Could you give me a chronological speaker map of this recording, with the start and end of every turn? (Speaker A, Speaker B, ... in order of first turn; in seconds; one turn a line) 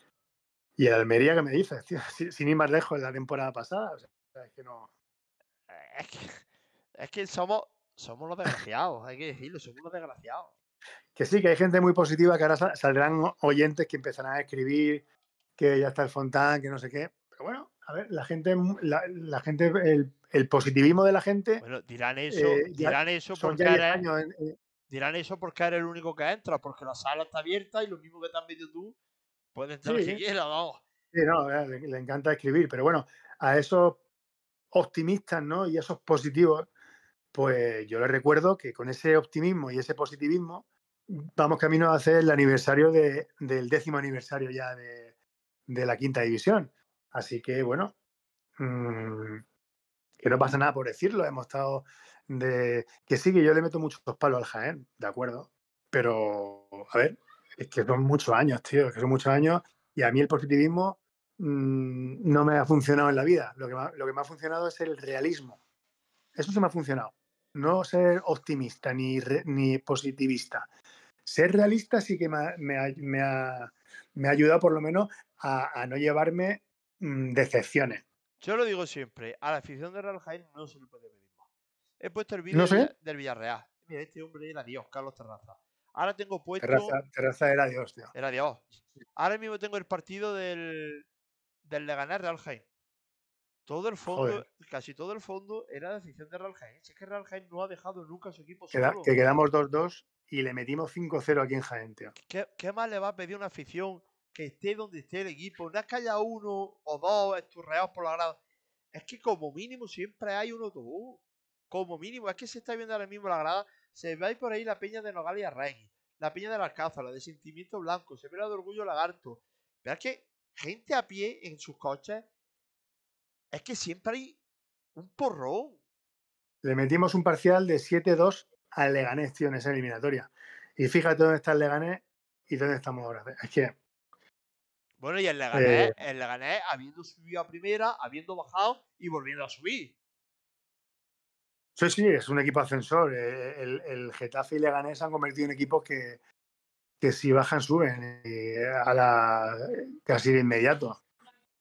Speaker A: 0.8-4.9
Speaker B: 5.7-6.4
Speaker B: 7.0-10.5
Speaker A: 11.1-15.0
Speaker A: 15.6-21.6
Speaker B: 21.6-24.0
Speaker A: 22.3-24.6
Speaker B: 24.9-28.9
Speaker B: 29.5-30.8
Speaker A: 29.8-30.2
Speaker A: 31.1-34.0
Speaker A: 34.7-36.7
Speaker A: 37.3-45.1
Speaker A: 45.7-47.9
Speaker A: 48.6-49.4
Speaker A: 50.2-65.6
Speaker A: 66.3-70.7
Speaker A: 71.2-78.0
Speaker B: 78.4-81.4
Speaker B: 82.0-87.0
Speaker A: 82.5-82.9
Speaker A: 86.6-88.1
Speaker B: 88.1-88.6
Speaker B: 89.2-91.0
Speaker B: 91.6-92.6
Speaker B: 93.7-99.2
Speaker A: 94.1-94.4
Speaker A: 98.7-102.1
Speaker B: 102.3-108.4
Speaker B: 108.9-122.2
Speaker B: 123.5-124.4
Speaker B: 125.0-125.8
Speaker A: 126.6-133.8
Speaker B: 135.0-139.9
Speaker A: 135.5-135.9
Speaker A: 141.8-146.2
Speaker A: 147.0-151.0